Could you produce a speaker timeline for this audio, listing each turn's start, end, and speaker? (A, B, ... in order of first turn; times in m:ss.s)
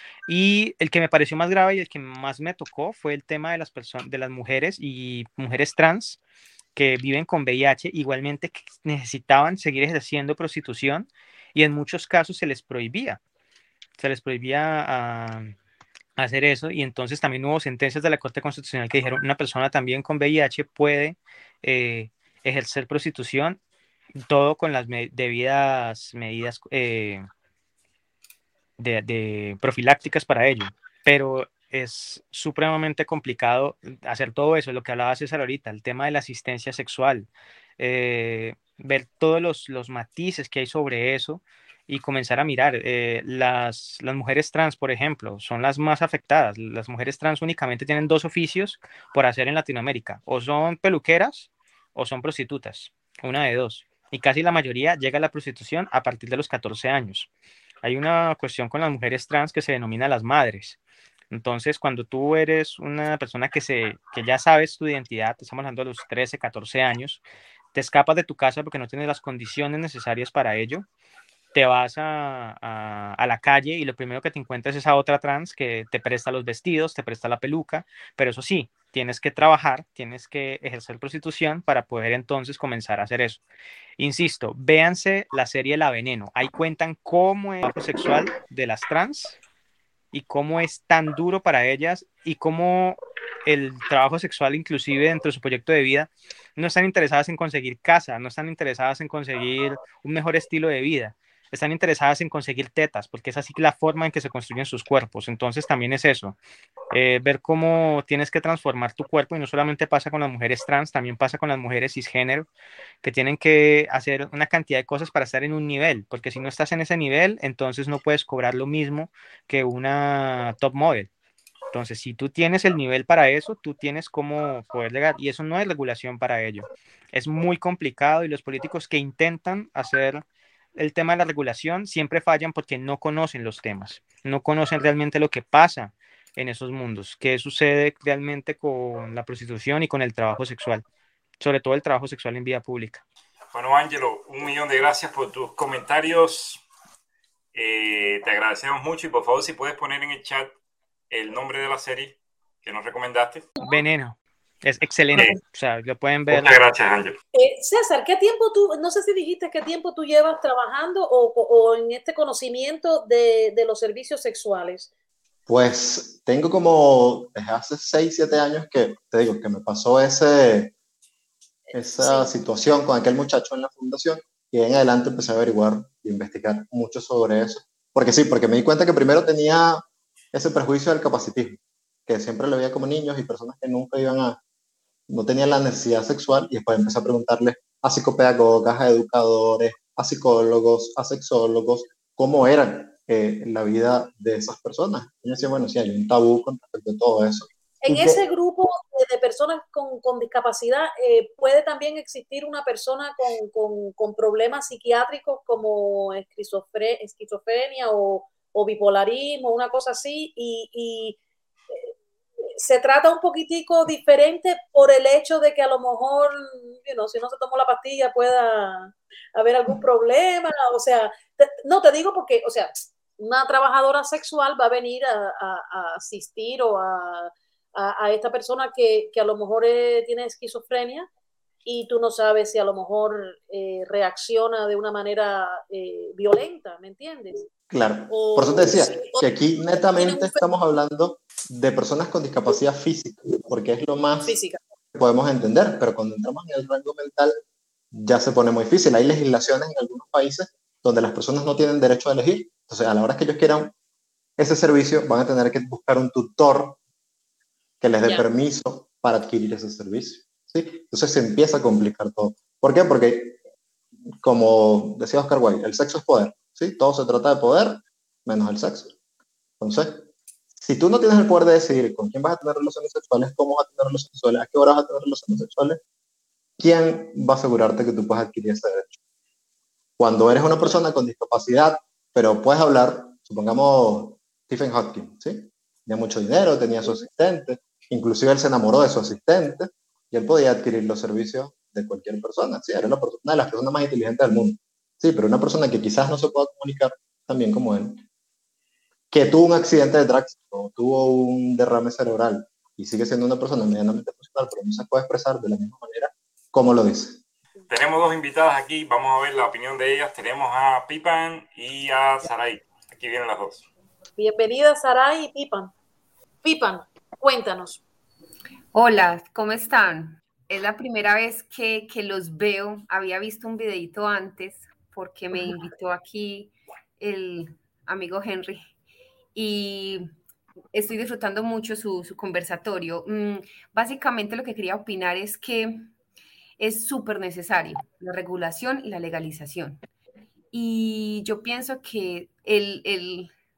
0:00.3-0:06.2 A
0:06.8-0:13.2 A
0:14.0-0:15.6 A
0:16.2-0:23.6 A
0:24.2-0:27.3 A
0:28.8-0:57.3 A
0:57.8-1:00.8 A
1:01.3-1:07.2 A
1:07.7-1:10.8 A
1:11.5-1:23.4 A
1:24.0-1:29.4 A
1:30.1-1:46.4 A
1:46.9-1:52.5 A
1:53.0-2:01.1 A
2:01.7-2:10.2 A
2:10.8-2:20.8 A
2:21.4-2:23.0 A
2:23.5-2:26.6 B
2:27.5-2:30.5 B
2:31.1-2:33.5 B
2:33.6-2:36.6 A
2:36.3-2:37.2 B
2:37.3-2:44.9 C
2:45.5-2:50.8 D
2:51.7-2:52.3 C
2:51.7-3:04.4 D
3:05.1-3:18.2 D
3:17.8-3:31.2 C
3:32.5-3:51.1 C
3:51.6-3:57.5 C
3:57.7-4:04.4 D
3:58.1-4:00.4 C
4:04.2-4:04.6 C
4:04.9-4:07.4 D
4:07.9-4:13.7 D
4:14.4-4:16.8 D
4:17.8-4:23.4 D
4:24.2-4:29.0 D
4:29.6-4:30.1 D
4:30.6-4:35.8 D
4:36.6-4:39.0 D
4:40.0-4:58.0 D
4:59.1-5:07.2 D
5:07.7-5:13.7 B
5:14.2-5:15.7 C
5:16.4-5:17.8 C
5:18.7-5:28.7 E
5:29.4-5:30.1 E
5:30.7-5:35.9 E
5:36.6-5:39.8 E
5:40.5-5:43.3 E